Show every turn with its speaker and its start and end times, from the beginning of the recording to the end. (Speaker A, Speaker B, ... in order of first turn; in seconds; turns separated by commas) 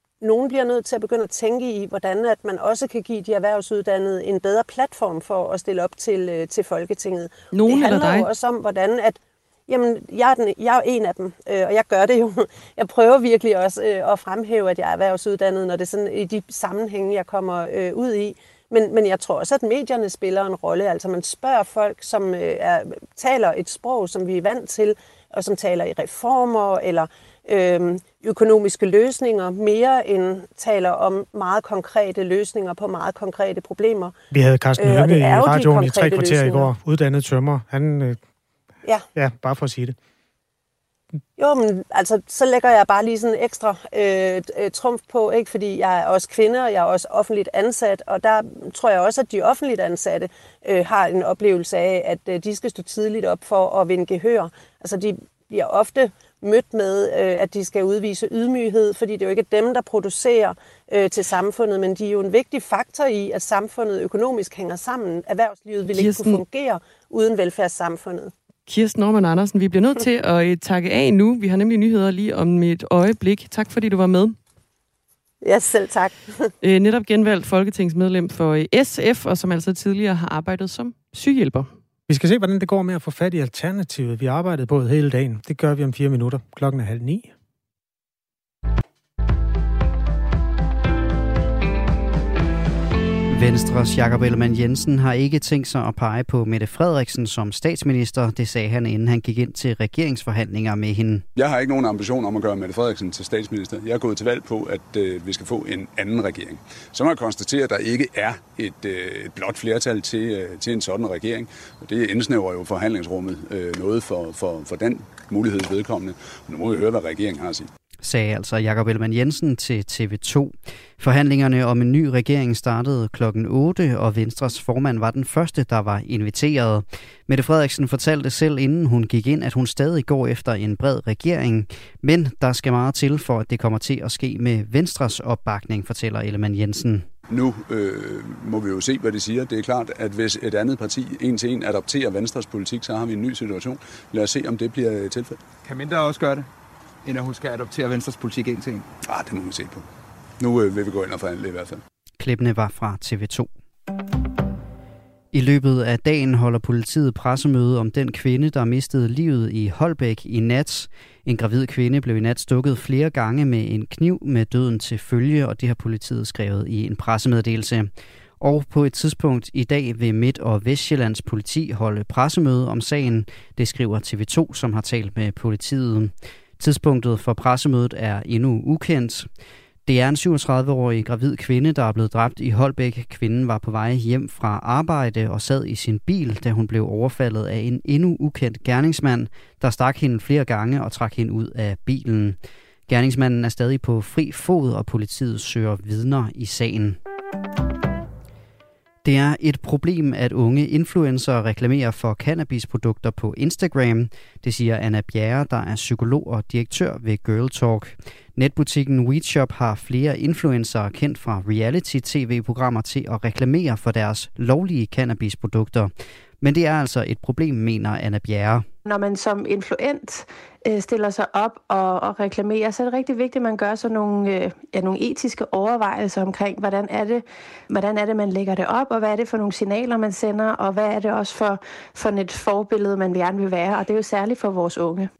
Speaker A: 0.2-34.1, Speaker B: 7.5-8.3, Speaker C: 34.3-38.2, Speaker A: 34.8-36.7, Speaker C: 39.1-40.0, Speaker A: 41.4-68.3, Speaker B: 65.9-66.4, Speaker B: 68.7-74.4, Speaker A: 75.4-76.5, Speaker B: 76.6-81.7, Speaker C: 82.1-87.3, Speaker D: 93.3-101.2, Speaker E: 101.3-117.7, Speaker D: 118.0-137.1, Speaker E: 137.3-145.4, Speaker F: 145.6-146.5, Speaker F: 147.1-148.9, Speaker E: 149.0-149.9, Speaker E: 150.4-151.8, Speaker D: 152.2-153.5, Speaker D: 155.3-179.3, Speaker D: 179.9-197.0, Speaker D: 199.0-218.7, Speaker G: 218.8-235.1